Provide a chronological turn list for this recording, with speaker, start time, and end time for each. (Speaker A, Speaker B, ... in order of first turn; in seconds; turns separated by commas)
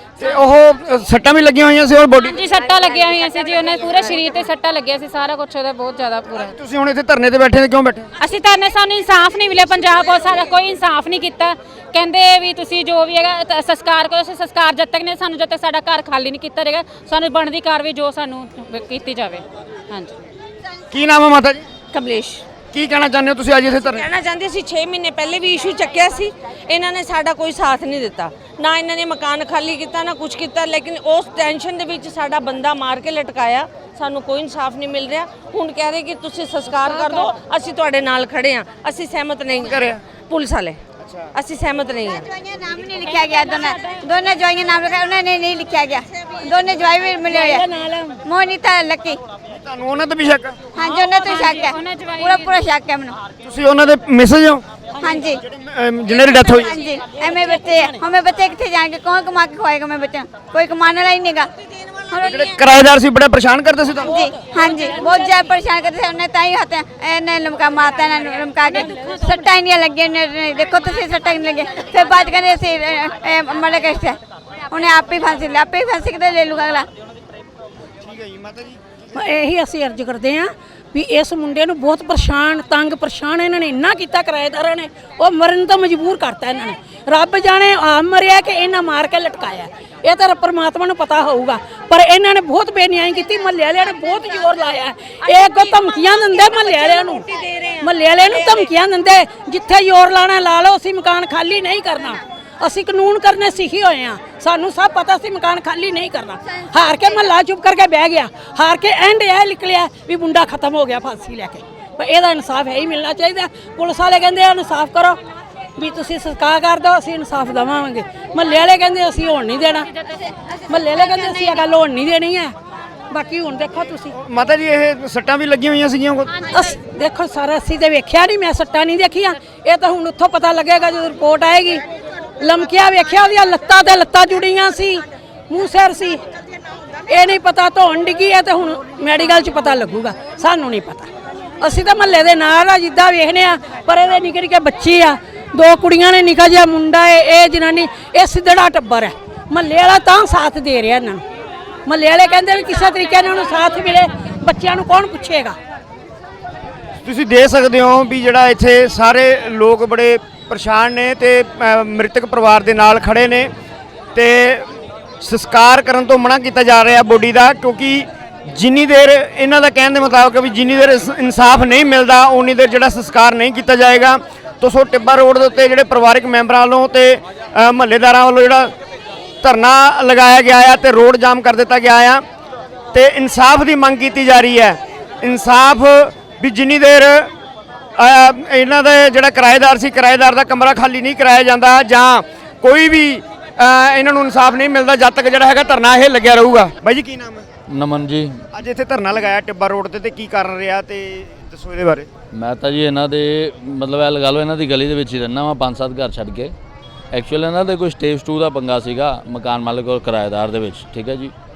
Speaker A: 0.2-2.4, Speaker B: 2.2-6.5, Speaker A: 6.3-8.1, Speaker B: 8.2-20.2, Speaker A: 20.9-21.6, Speaker C: 21.9-22.4, Speaker A: 22.7-24.1, Speaker C: 23.8-40.8, Speaker B: 36.8-37.2, Speaker A: 39.6-40.0, Speaker A: 41.0-41.4, Speaker C: 41.3-42.2, Speaker D: 42.2-47.7, Speaker B: 42.9-44.0, Speaker E: 47.2-48.2, Speaker D: 48.2-49.2, Speaker A: 49.5-50.6, Speaker D: 50.8-53.1, Speaker B: 50.8-52.6, Speaker A: 53.4-54.6, Speaker E: 55.0-55.3, Speaker D: 55.0-55.4, Speaker A: 55.4-56.7, Speaker D: 56.5-61.5, Speaker E: 57.3-58.0, Speaker D: 62.0-62.5, Speaker A: 62.2-64.2, Speaker D: 64.0-76.9, Speaker A: 78.0-78.8, Speaker E: 79.2-115.2, Speaker C: 95.2-98.7, Speaker E: 115.8-119.9, Speaker E: 120.5-122.5, Speaker E: 123.1-124.1, Speaker A: 124.2-126.5, Speaker E: 126.5-131.8, Speaker E: 132.4-136.2, Speaker E: 137.1-141.1, Speaker E: 141.6-151.2, Speaker E: 151.9-155.6, Speaker A: 157.0-163.5, Speaker A: 164.1-164.7, Speaker A: 165.2-178.7, Speaker A: 179.4-182.2, Speaker A: 182.9-187.3, Speaker A: 188.0-197.5, Speaker F: 197.7-198.3, Speaker A: 198.5-202.1, Speaker F: 202.3-206.5, Speaker F: 207.1-211.3